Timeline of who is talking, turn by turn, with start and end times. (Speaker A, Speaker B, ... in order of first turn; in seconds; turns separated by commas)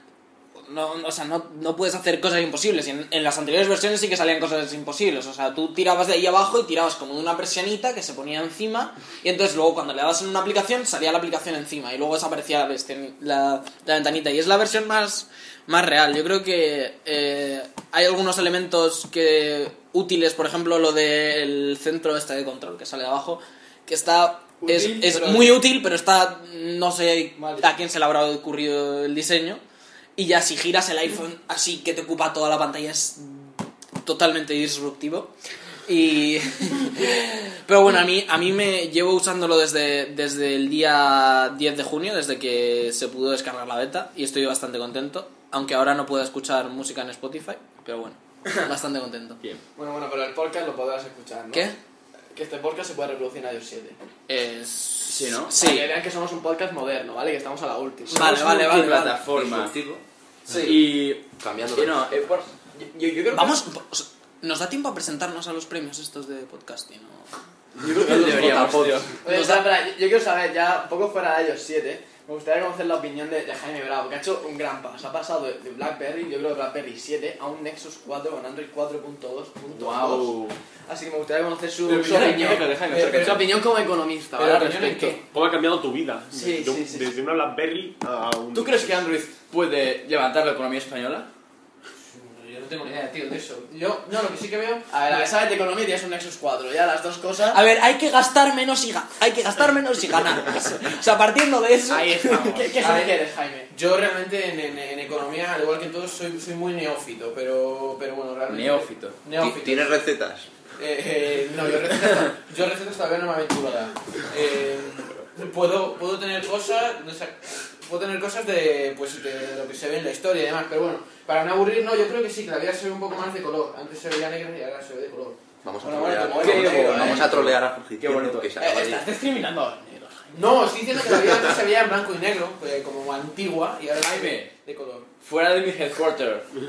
Speaker A: 0.7-29.6, Speaker A: 30.1-35.3, Speaker A: 35.9-49.4, Speaker B: 49.8-51.7, Speaker B: 52.3-54.0, Speaker A: 54.3-55.9, Speaker C: 55.1-55.5, Speaker B: 55.5-58.2, Speaker A: 58.1-59.2, Speaker C: 58.1-59.7, Speaker D: 59.3-60.0, Speaker C: 60.5-63.6, Speaker D: 61.4-62.1, Speaker A: 63.3-67.3, Speaker C: 67.8-69.1, Speaker D: 68.1-69.0, Speaker A: 68.2-69.6, Speaker B: 69.2-85.2, Speaker C: 79.7-80.5, Speaker C: 81.8-83.5, Speaker E: 82.0-83.4, Speaker E: 84.3-85.2, Speaker F: 85.3-89.0, Speaker B: 86.4-87.0, Speaker C: 88.5-91.3, Speaker E: 92.0-95.2, Speaker B: 94.9-97.6, Speaker A: 97.5-102.7, Speaker B: 101.9-103.7, Speaker E: 102.7-103.2, Speaker E: 103.7-109.9, Speaker C: 108.5-109.2, Speaker D: 109.4-110.5, Speaker E: 110.8-127.2, Speaker D: 125.6-129.0, Speaker B: 126.0-127.3, Speaker C: 126.3-128.5, Speaker B: 128.6-130.3, Speaker E: 130.3-135.1, Speaker C: 134.0-134.5, Speaker C: 135.2-136.5